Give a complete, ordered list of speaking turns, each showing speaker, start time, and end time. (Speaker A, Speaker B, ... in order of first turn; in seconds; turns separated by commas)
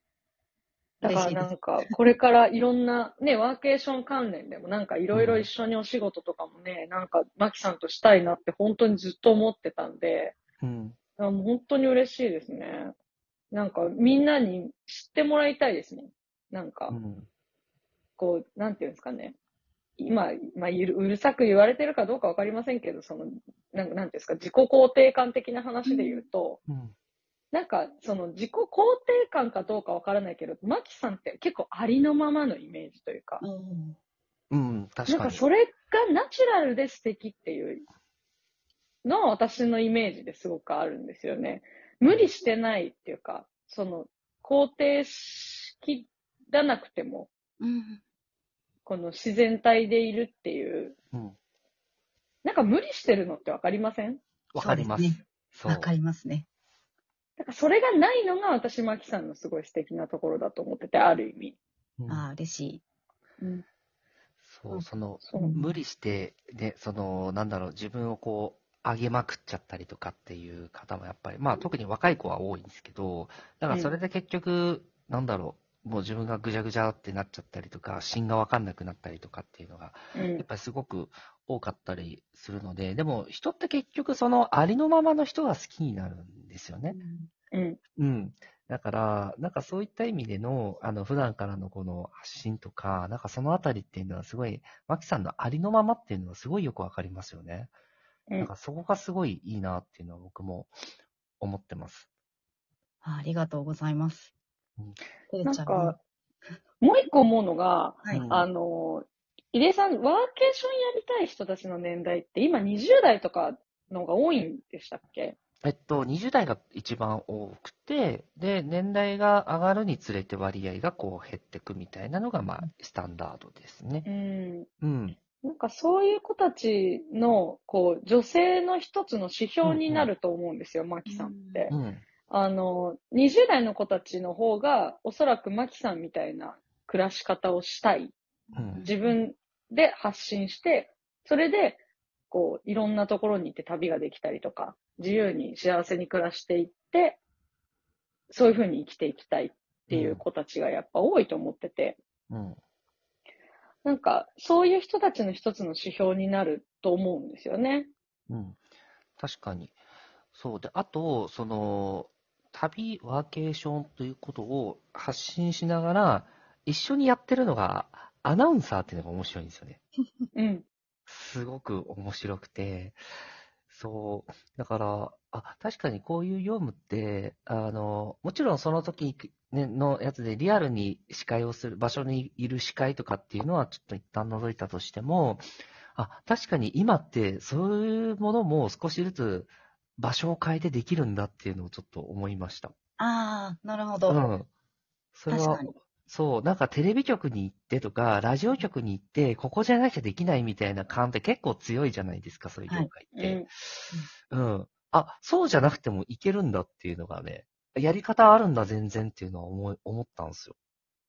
Speaker A: 1.0-10.4, Speaker B: 1.0-1.5, Speaker C: 5.1-5.5, Speaker C: 10.6-11.0, Speaker A: 11.2-12.9, Speaker A: 13.5-16.9, Speaker C: 16.9-17.3, Speaker A: 18.2-19.4, Speaker A: 20.0-26.6, Speaker B: 25.9-26.2, Speaker C: 26.7-26.9, Speaker A: 27.5-33.4, Speaker B: 33.4-34.0, Speaker C: 34.5-35.4, Speaker A: 35.1-37.8, Speaker A: 39.0-47.3, Speaker B: 47.6-48.0, Speaker A: 48.9-51.0, Speaker A: 52.4-54.2, Speaker C: 54.5-55.9, Speaker B: 54.6-56.5, Speaker A: 57.4-61.6, Speaker C: 62.0-62.2, Speaker B: 62.1-62.8, Speaker C: 64.4-87.0, Speaker B: 64.7-65.6, Speaker A: 65.2-65.6, Speaker A: 80.1-80.5, Speaker B: 86.9-87.3, Speaker A: 87.5-87.8, Speaker C: 88.0-97.7, Speaker C: 98.4-100.7, Speaker C: 101.4-102.1, Speaker B: 103.0-104.3, Speaker B: 105.3-106.0, Speaker A: 105.5-106.0, Speaker A: 106.8-115.4, Speaker C: 108.1-108.5, Speaker C: 115.6-124.1, Speaker A: 124.0-124.7, Speaker C: 124.8-125.2, Speaker A: 125.4-131.7, Speaker C: 129.6-130.1, Speaker B: 131.1-131.7, Speaker C: 131.7-132.0, Speaker A: 132.3-138.2, Speaker B: 138.5-139.2, Speaker C: 138.6-138.9, Speaker A: 138.8-147.2, Speaker A: 148.3-152.0, Speaker C: 149.9-150.2, Speaker C: 152.3-152.6, Speaker A: 153.8-157.9, Speaker C: 158.3-158.6, Speaker C: 159.2-159.8, Speaker C: 160.3-169.8, Speaker A: 170.3-170.7, Speaker C: 171.1-173.0, Speaker C: 173.7-192.7, Speaker B: 193.0-194.2, Speaker C: 194.1-194.5, Speaker C: 195.1-210.6, Speaker B: 195.3-195.7, Speaker A: 203.2-203.5